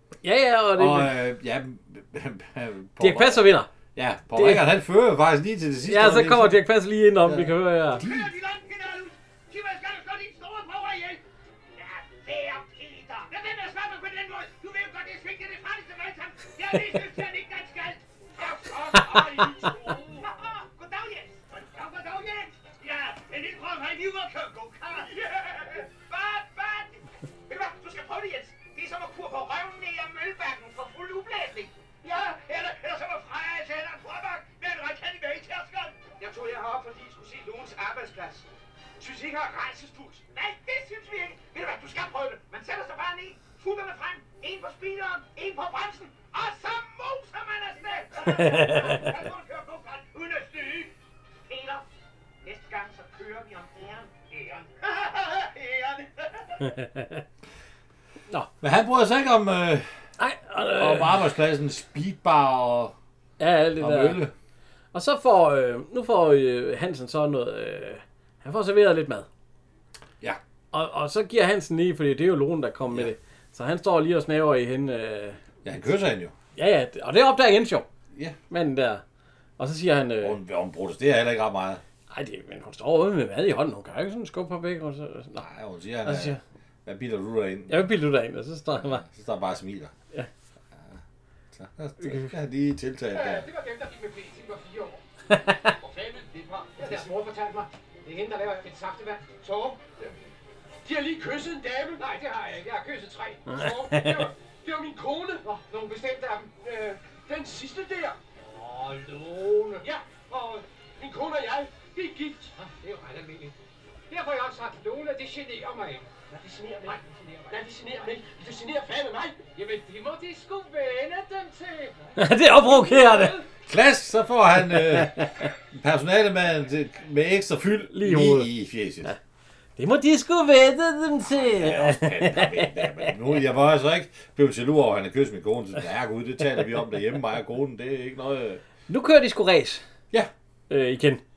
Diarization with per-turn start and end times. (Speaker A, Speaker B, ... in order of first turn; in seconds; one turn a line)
Speaker A: 0.2-1.2
Speaker B: 0.8-6.6
Speaker A: 3.0-3.7
Speaker A: 4.3-4.7
Speaker A: 5.8-8.0
Speaker B: 7.2-8.3
Speaker C: 8.0-11.2
Speaker C: 11.8-38.5
Speaker C: 39.0-50.9
Speaker A: 48.2-49.0
Speaker C: 51.5-51.9
Speaker C: 52.4-56.6
Speaker A: 56.6-57.2
Speaker B: 58.6-59.9
Speaker A: 60.2-61.3
Speaker B: 60.7-62.9
Speaker A: 63.4-64.2
Speaker B: 63.8-64.3
Speaker A: 64.9-69.3
Speaker A: 70.7-75.4
Speaker B: 75.6-76.3
Speaker A: 76.5-77.8
Speaker A: 78.5-79.0
Speaker A: 79.6-80.4
Speaker B: 80.2-81.8
Speaker A: 82.1-85.4
Speaker B: 85.3-87.9
Speaker A: 86.0-86.4
Speaker A: 87.7-89.0
Speaker B: 88.7-89.9
Speaker B: 90.7-91.0
Speaker B: 91.5-93.5
Speaker A: 92.0-92.3
Speaker D: 93.1-95.0
Speaker A: 95.3-95.6
Speaker D: 95.6-99.8
Speaker D: 101.9-104.3
Speaker A: 103.5-104.3
Speaker D: 105.3-106.6
Speaker E: 107.3-107.9
Speaker D: 108.9-110.6
Speaker E: 111.1-112.2
Speaker D: 112.5-113.5
Speaker D: 114.1-118.2
Speaker C: 116.9-117.5
Speaker E: 117.5-119.3
Speaker D: 119.3-123.4
Speaker A: 122.2-123.4
Speaker B: 123.7-129.1
Speaker A: 124.7-125.5
Speaker A: 127.9-128.5
Speaker A: 129.8-133.1
Speaker B: 131.2-138.6
Speaker A: 138.9-139.8
Speaker A: 140.7-141.2